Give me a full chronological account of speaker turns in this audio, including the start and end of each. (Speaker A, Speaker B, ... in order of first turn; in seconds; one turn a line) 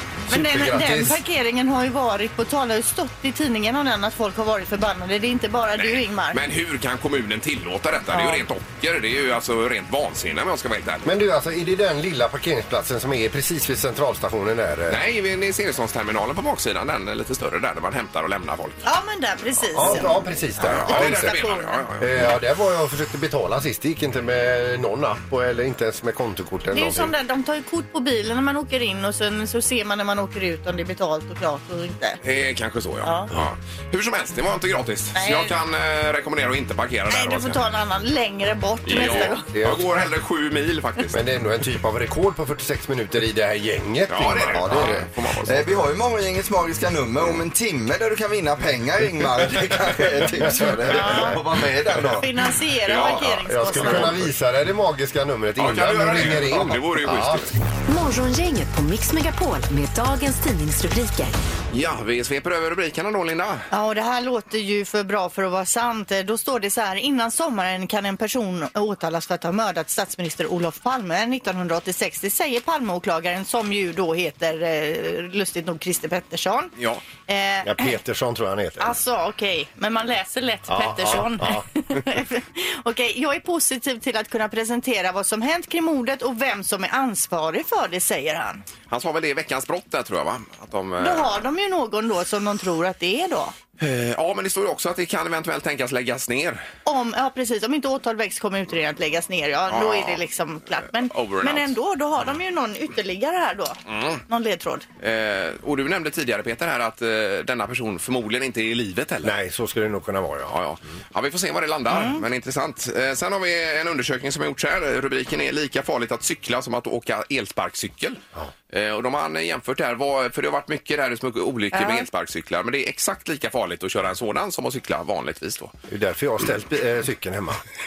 Speaker A: 0.3-1.2
Speaker B: 0.3-6.4
Speaker C: 5.8-11.1
Speaker B: 8.1-8.4
Speaker A: 11.0-15.0
Speaker C: 14.9-18.8
Speaker B: 18.8-21.8
Speaker A: 19.7-21.4
Speaker C: 20.6-22.2
Speaker A: 22.0-27.1
Speaker B: 26.7-32.2
Speaker C: 32.2-37.6
Speaker B: 33.0-33.3
Speaker B: 35.1-35.5
Speaker B: 37.1-39.5
Speaker C: 38.9-41.2
Speaker A: 38.9-39.8
Speaker A: 41.1-45.0
Speaker C: 44.1-45.8
Speaker D: 44.4-52.3
Speaker A: 50.4-51.4
Speaker B: 50.9-51.4
Speaker B: 52.2-54.2
Speaker C: 52.9-54.2
Speaker A: 53.4-57.5
Speaker C: 55.6-57.6
Speaker E: 57.9-61.3
Speaker C: 61.7-63.7
Speaker B: 63.7-76.7
Speaker C: 76.8-77.0
Speaker B: 77.3-77.9
Speaker A: 77.6-79.0
Speaker B: 78.8-88.6
Speaker A: 80.7-81.7
Speaker C: 88.9-91.4
Speaker B: 91.0-93.5
Speaker C: 93.8-96.6
Speaker B: 96.8-104.8
Speaker C: 99.7-100.2
Speaker C: 101.0-101.7
Speaker C: 103.9-104.2
Speaker C: 105.0-109.3
Speaker A: 109.2-110.5
Speaker C: 110.5-118.2
Speaker B: 111.9-112.2
Speaker C: 118.7-125.7
Speaker B: 121.7-122.1
Speaker A: 125.9-127.6